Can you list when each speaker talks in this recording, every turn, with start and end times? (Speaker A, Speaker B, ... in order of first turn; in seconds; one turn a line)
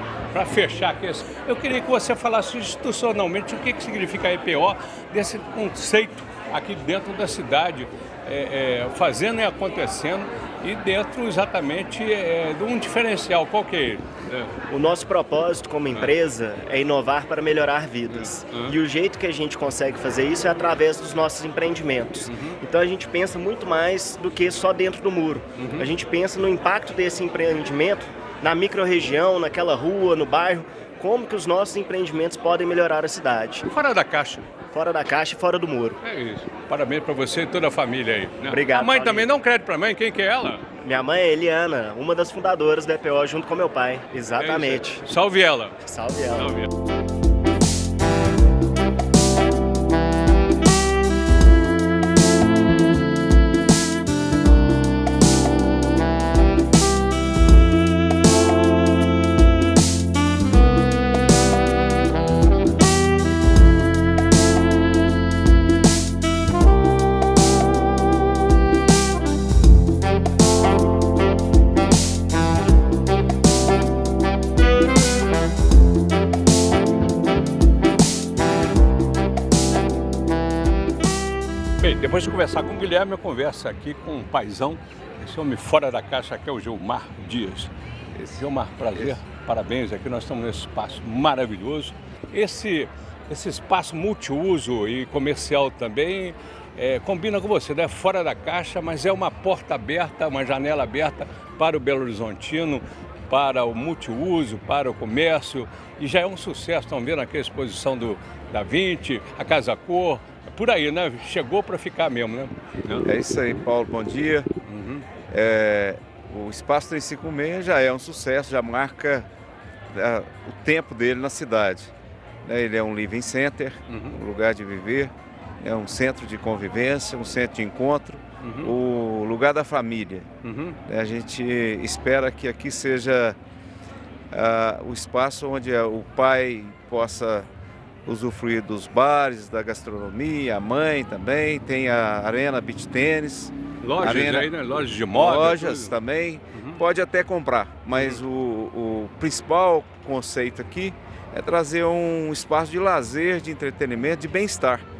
Speaker A: 0.3-14.5
Speaker B: 14.7-33.6
Speaker A: 18.5-18.8
Speaker A: 22.3-22.6
Speaker A: 25.6-25.9
Speaker A: 33.6-34.5
Speaker B: 34.7-36.0
Speaker A: 36.0-40.6
Speaker B: 38.5-39.3
Speaker B: 40.8-45.0
Speaker A: 44.4-45.8
Speaker B: 45.8-46.5
Speaker A: 46.4-46.7
Speaker A: 81.8-87.7
Speaker C: 88.1-88.4
Speaker A: 88.3-113.1
Speaker C: 113.0-114.5
Speaker A: 114.7-115.0
Speaker C: 115.3-119.3
Speaker C: 119.9-121.9
Speaker C: 122.4-130.3
Speaker A: 123.9-124.2
Speaker A: 128.4-128.7
Speaker A: 130.4-130.8
Speaker C: 130.8-133.4
Speaker C: 134.3-137.5
Speaker C: 138.1-144.5
Speaker A: 143.8-146.0
Speaker C: 145.1-154.8
Speaker A: 146.5-146.8